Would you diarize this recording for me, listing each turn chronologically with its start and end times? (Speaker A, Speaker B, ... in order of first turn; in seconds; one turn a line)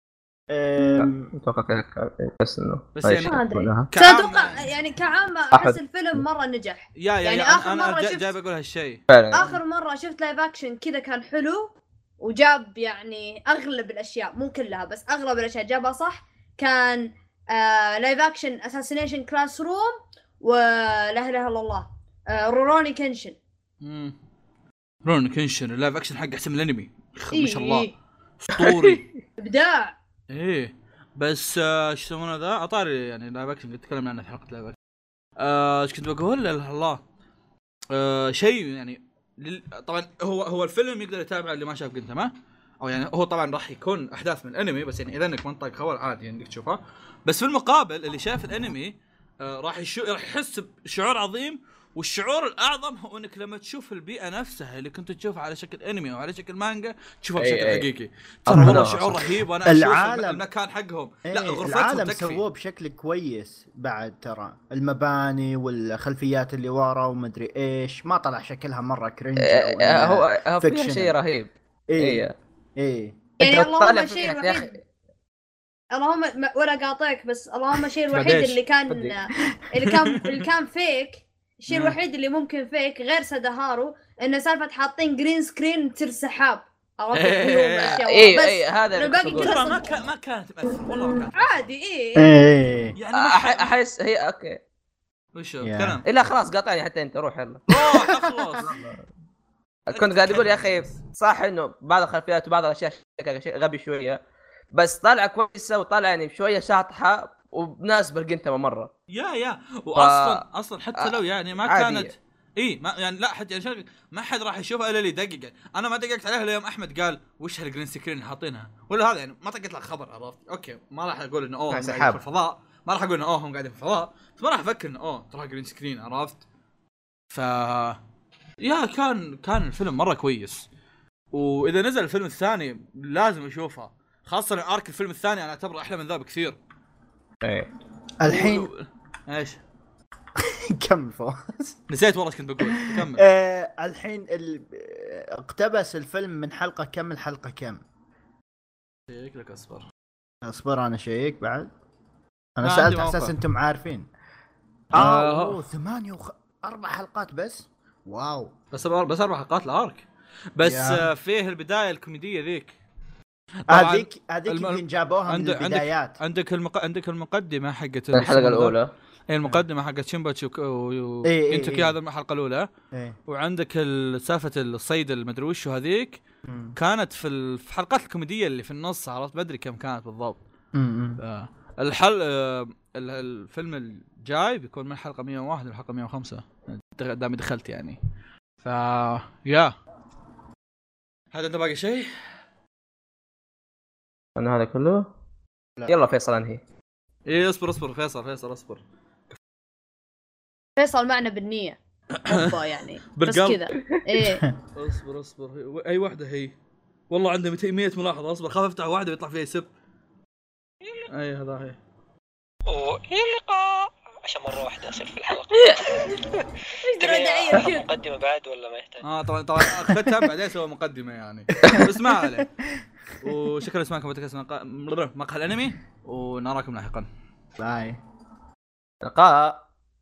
Speaker A: 0.5-1.3
Speaker B: 0.9-3.9
Speaker C: 3.0-3.4
Speaker D: 3.2-8.3
Speaker C: 3.9-4.6
Speaker B: 5.5-6.2
Speaker C: 7.0-9.6
Speaker B: 9.1-9.5
Speaker D: 9.3-23.4
Speaker C: 23.8-24.2
Speaker C: 25.0-27.9
Speaker D: 27.3-27.9
Speaker C: 28.4-29.1
Speaker B: 28.6-29.0
Speaker D: 29.4-29.9
Speaker C: 30.3-34.8
Speaker C: 35.4-37.0
Speaker C: 37.9-62.4
Speaker B: 57.4-57.9
Speaker B: 58.5-59.1
Speaker A: 58.5-60.4
Speaker A: 61.3-71.2
Speaker B: 69.4-72.3
Speaker A: 71.9-72.3
Speaker A: 72.8-73.2
Speaker D: 73.4-74.8
Speaker B: 73.4-74.8
Speaker D: 75.9-89.8
Speaker B: 78.1-79.2
Speaker C: 78.1-78.6
Speaker C: 81.7-82.0
Speaker C: 87.1-88.0
Speaker B: 88.1-89.6
Speaker C: 89.3-91.7
Speaker D: 91.3-92.3
Speaker A: 92.2-93.0
Speaker C: 93.0-93.7
Speaker B: 93.1-94.6
Speaker C: 95.4-96.0
Speaker A: 95.6-96.0
Speaker B: 96.0-97.6
Speaker C: 97.7-98.7
Speaker A: 98.0-98.8
Speaker B: 98.6-99.0
Speaker B: 99.9-104.2
Speaker C: 99.9-101.0
Speaker B: 104.8-108.9
Speaker C: 109.1-126.4
Speaker B: 110.0-110.4
Speaker B: 111.7-112.1
Speaker B: 121.7-122.2
Speaker C: 127.3-128.0
Speaker C: 128.6-130.7
Speaker C: 131.3-136.6
Speaker B: 137.4-137.7
Speaker A: 138.2-138.7
Speaker C: 138.3-139.6
Speaker A: 140.4-141.8
Speaker C: 141.9-143.2
Speaker A: 142.7-147.8
Speaker C: 149.1-149.9
Speaker A: 150.4-151.7
Speaker A: 152.6-154.1
Speaker C: 152.6-153.3
Speaker A: 154.9-158.5
Speaker C: 154.9-155.6
Speaker C: 158.7-162.7
Speaker A: 160.6-161.1
Speaker C: 163.7-168.8
Speaker A: 163.7-166.2
Speaker B: 168.1-168.9
Speaker C: 169.3-172.7
Speaker A: 171.2-171.9
Speaker C: 173.3-176.2
Speaker A: 176.5-176.7
Speaker C: 176.8-180.4
Speaker A: 180.8-181.2
Speaker C: 181.2-188.0
Speaker C: 188.6-189.8
Speaker C: 191.3-192.1
Speaker B: 194.4-195.1
Speaker B: 195.9-196.6
Speaker C: 197.3-198.8
Speaker D: 200.8-201.8
Speaker C: 202.2-202.5
Speaker D: 202.3-204.4
Speaker C: 203.2-203.7
Speaker C: 204.8-206.5
Speaker C: 207.1-209.7
Speaker C: 211.1-211.8
Speaker E: 212.7-216.2
Speaker D: 216.8-217.9
Speaker E: 216.9-219.1
Speaker C: 219.0-222.5
Speaker A: 221.6-221.9
Speaker C: 223.2-227.1
Speaker A: 227.6-228.0
Speaker B: 229.0-229.6